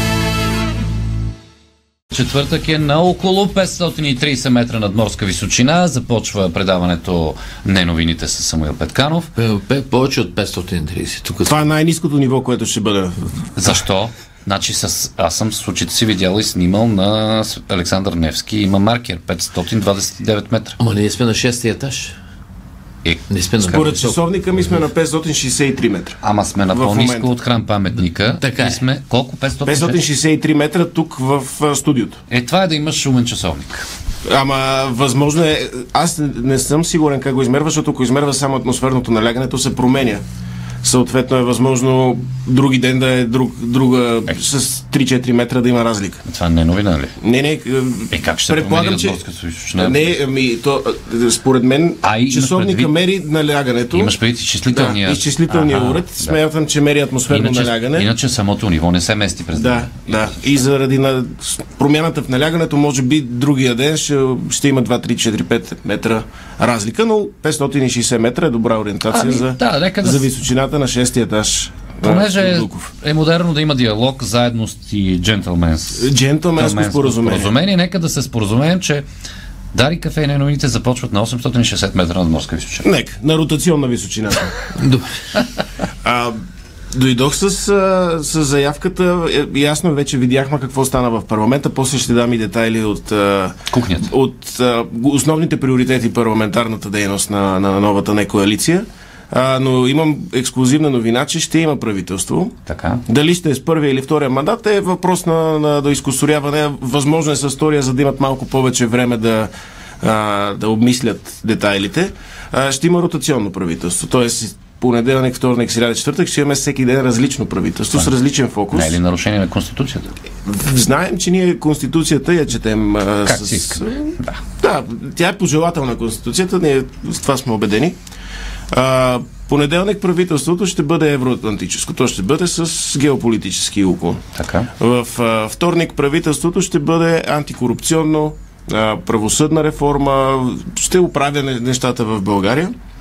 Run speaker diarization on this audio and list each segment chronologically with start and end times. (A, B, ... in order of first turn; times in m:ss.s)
0:02.1-0:09.3 A
0:09.4-0:11.5 B
0:11.4-0:13.3 C
0:13.6-0:20.8 A
0:20.8-0:22.2 B
0:23.0-0:23.9 A
0:23.3-0:24.2 B
0:23.7-0:27.3 C
0:26.2-0:30.0 A
0:28.3-0:28.8 B
0:29.7-0:32.2 C
0:32.3-0:33.9 A
0:34.3-0:40.2 C
0:40.8-0:46.2 C
0:46.2-0:47.2 A
0:47.2-0:49.2 C
0:48.1-0:50.2 A
0:49.8-0:54.2 C
0:52.0-0:53.0 A
0:53.9-0:56.4 A
0:54.7-0:58.1 C
0:57.3-1:00.4 A
0:59.5-1:12.9 C
1:09.1-1:10.3 A
1:12.0-1:19.0 A
1:16.0-1:17.5 C
1:19.7-1:22.9 A
1:22.8-1:24.5 C
1:24.8-1:25.1 B
1:26.0-1:26.4 C
1:26.9-1:42.6 C
1:33.7-1:34.1 A
1:42.7-1:43.0 A
1:43.1-1:49.5 C
1:50.0-1:59.0 C
1:58.7-2:00.1 A
2:00.5-2:08.0 C
2:03.2-2:04.4 A
2:08.7-2:14.2 C
2:14.4-2:14.7 A
2:14.8-2:22.7 C